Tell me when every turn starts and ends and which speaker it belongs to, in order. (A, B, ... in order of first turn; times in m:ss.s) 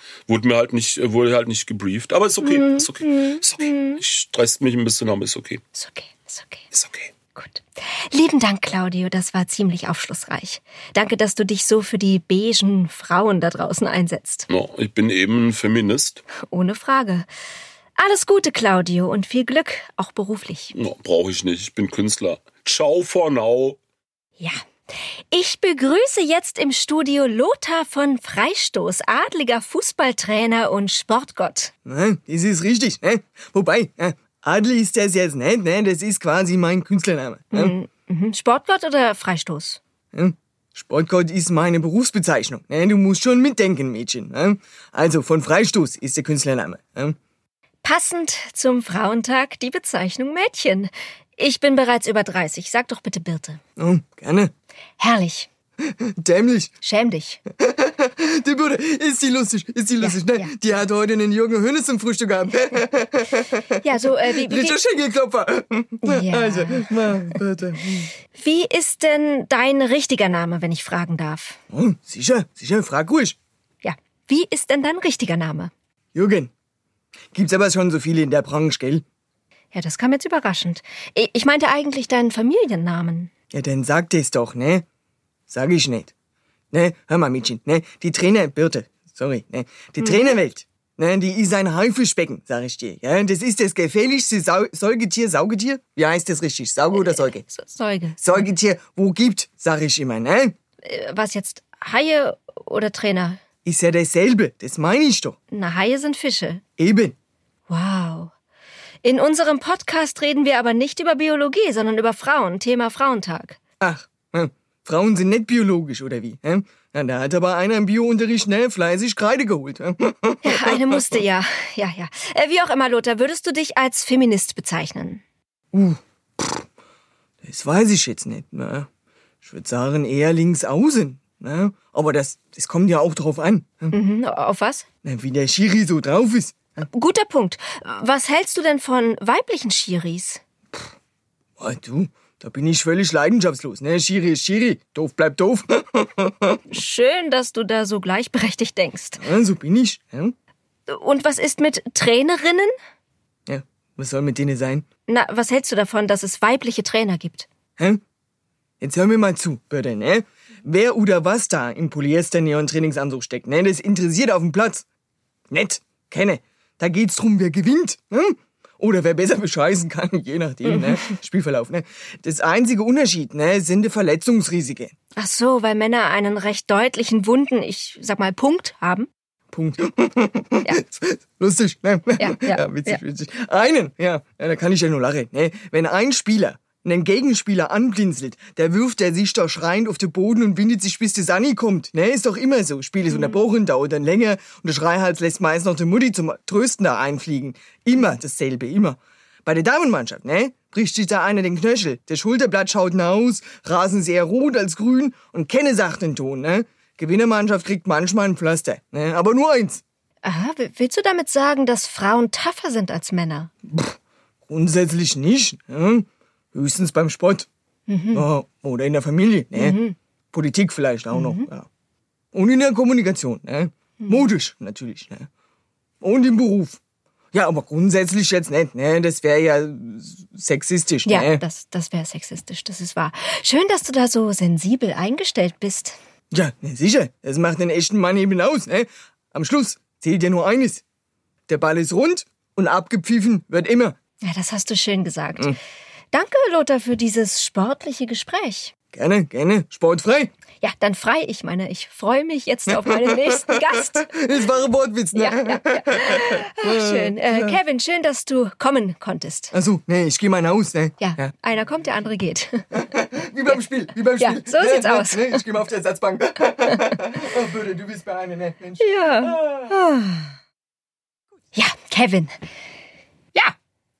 0:00.3-0:05.6 A
0:02.4-0:04.0 B
0:05.7-0:06.6 B
0:06.7-0:07.1 A
0:07.3-0:14.5 B
0:14.5-0:16.2 A
0:16.4-0:17.3 B
0:18.0-0:20.7 B
0:20.7-0:23.8 A
0:25.3-0:31.7 B
0:31.8-0:37.8 C
0:37.5-0:39.8 B
0:40.1-0:47.2 C
0:47.8-0:53.6 B
0:53.8-0:54.5 C
0:55.0-0:55.5 B
0:56.0-0:56.7 C
0:56.8-0:57.4 B
0:57.6-1:08.1 C
1:00.0-1:00.5 B
1:03.8-1:04.8 B
1:06.0-1:07.0 B
1:08.3-1:11.6 B
1:11.7-1:13.4 C
1:13.8-1:15.7 B
1:16.1-1:16.5 C
1:17.3-1:19.0 C
1:19.7-1:23.3 B
1:23.5-1:24.8 C
1:25.5-1:26.1 C
1:26.7-1:37.4 C
1:30.0-1:30.4 B
1:36.9-1:38.4 B
1:38.2-1:40.5 C
1:40.8-1:43.4 B
1:43.6-1:45.4 C
1:45.5-1:46.6 B
1:46.8-1:47.1 C
1:47.7-1:48.3 B
1:49.0-1:53.6 B
1:53.8-2:01.0 C
2:00.4-2:05.2 B
2:05.7-2:06.6 C
2:07.4-2:08.9 C
2:09.4-2:13.9 C
2:13.9-2:14.8 B
2:15.0-2:16.8 C
2:16.9-2:20.4 B
2:21.6-2:26.6 C
2:26.7-2:29.2 B
2:29.2-2:30.3 C
2:30.9-2:32.7 B
2:33.5-2:34.8 C
2:35.1-2:37.5 B
2:38.8-2:44.8 C
2:45.5-2:54.9 C
2:55.1-2:59.1 B
2:59.5-3:29.8 C
3:02.2-3:03.0 B
3:13.1-3:13.4 B
3:30.2-3:33.5 B
3:33.7-3:33.9 C
3:34.5-3:37.5 C
3:37.9-3:38.2 B
3:38.1-3:39.8 C
3:39.6-3:40.0 B
3:40.3-3:41.7 C
3:41.1-3:41.4 B
3:42.3-3:45.3 C
3:44.0-3:44.3 B
3:46.0-3:46.8 C
3:47.3-3:51.4 C
3:51.0-3:56.0 B
3:56.3-4:00.8 C
4:01.5-4:04.0 C
4:04.2-4:05.5 B
4:06.1-4:08.7 B
4:08.9-4:10.3 C
4:10.6-4:14.1 B
4:12.7-4:17.6 C
4:15.1-4:19.5 B
4:19.5-4:21.3 C
4:21.0-4:22.7 B
4:22.7-4:29.7 C
4:24.2-4:25.4 B
4:28.8-4:30.3 B
4:31.5-4:32.4 B